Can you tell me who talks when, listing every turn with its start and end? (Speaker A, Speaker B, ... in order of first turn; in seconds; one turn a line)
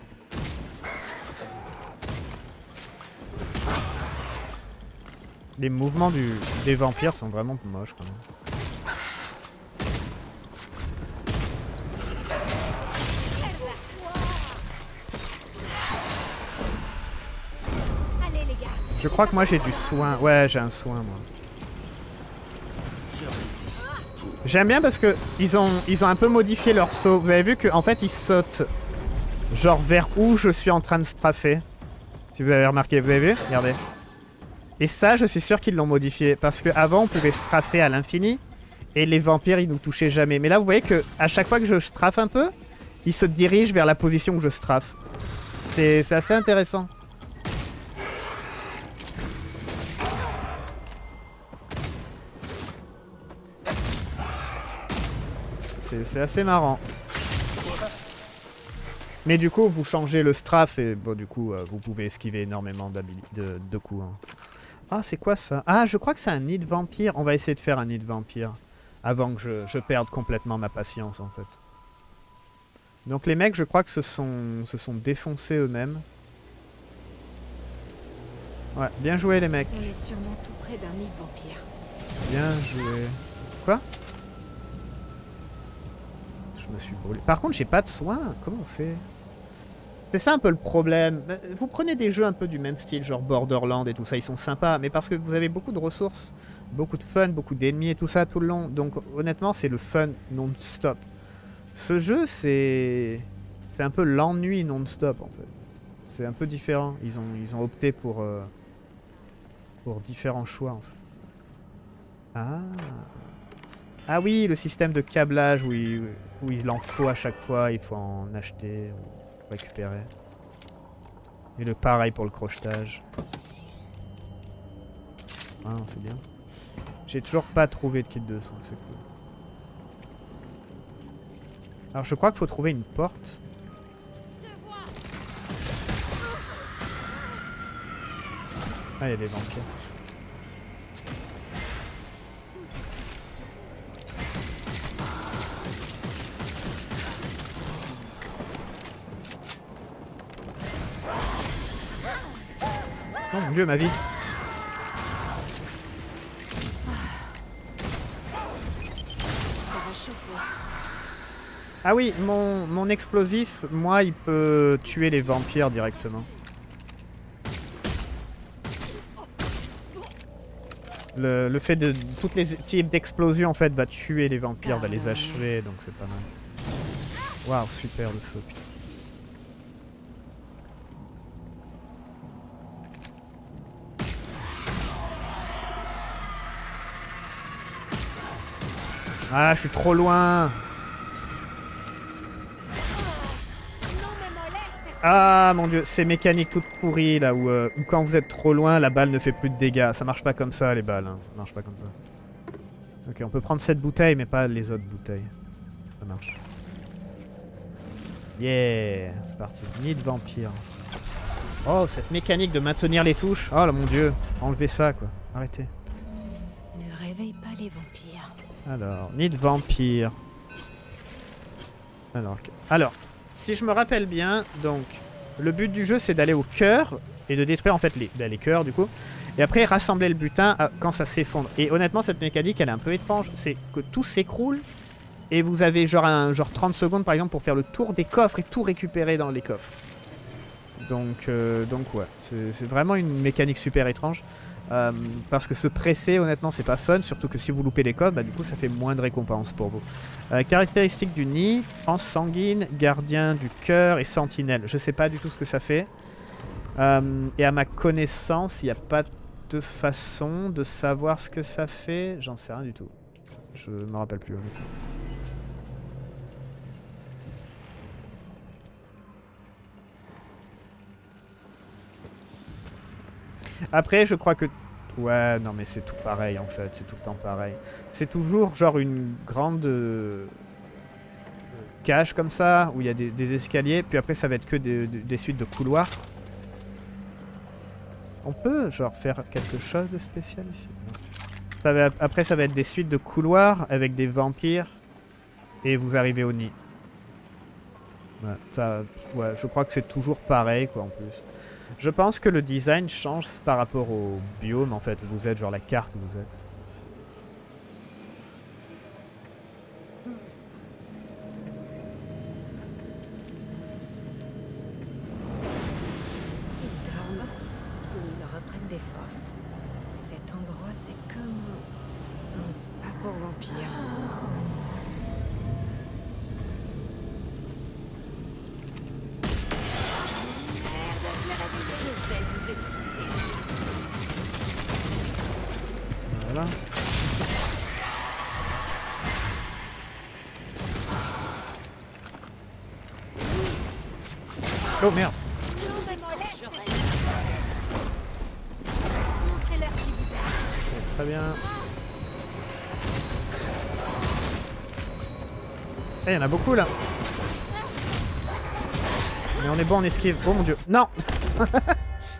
Speaker A: 5.6-8.2
Speaker B: 18.2-18.8
Speaker A: 18.9-21.3
Speaker A: 24.4-28.7
Speaker A: 29.5-31.6
Speaker A: 32.3-33.8
Speaker A: 34.8-38.4
Speaker A: 38.9-42.5
Speaker A: 43.0-45.0
Speaker A: 45.6-46.9
Speaker A: 55.8-56.8
Speaker A: 59.2-64.2
Speaker A: 64.9-71.6
Speaker A: 73.0-76.0
Speaker A: 78.7-79.9
Speaker B: 79.7-81.7
Speaker A: 82.2-83.8
Speaker A: 86.5-89.0
Speaker A: 90.1-101.0
Speaker A: 101.7-105.5
Speaker A: 106.0-108.5
Speaker A: 109.8-111.0
Speaker A: 112.3-113.2
Speaker A: 114.1-120.1
Speaker A: 121.6-123.0
Speaker A: 125.6-126.2
Speaker A: 127.1-129.0
Speaker A: 131.9-133.4
Speaker A: 139.0-139.7
Speaker A: 153.3-154.0
Speaker B: 159.7-160.5
Speaker A: 161.8-166.3
Speaker A: 171.1-176.3
Speaker B: 174.6-175.6
Speaker A: 177.4-178.6
Speaker A: 189.3-190.6
Speaker B: 193.9-194.9
Speaker A: 195.0-201.9
Speaker A: 203.0-205.3
Speaker A: 206.0-206.4
Speaker A: 208.3-210.6
Speaker A: 211.6-215.7
Speaker B: 216.7-218.3
Speaker A: 218.6-220.2
Speaker A: 222.1-234.7
Speaker A: 235.3-239.7
Speaker A: 240.8-255.9
Speaker A: 256.8-262.9
Speaker A: 263.5-264.7
Speaker A: 273.7-280.3
Speaker A: 281.8-286.1
Speaker A: 288.2-291.0
Speaker A: 291.6-294.8
Speaker A: 295.6-296.5
Speaker A: 298.2-301.2
Speaker A: 301.8-306.4
Speaker B: 316.6-317.4
Speaker B: 317.9-319.3
Speaker B: 319.9-321.6
Speaker B: 322.3-324.0
Speaker B: 330.4-333.3
Speaker A: 336.1-336.6
Speaker A: 344.8-345.1
Speaker B: 345.5-347.0
Speaker B: 349.2-350.4
Speaker A: 350.6-351.4
Speaker A: 356.1-356.7
Speaker A: 359.4-361.8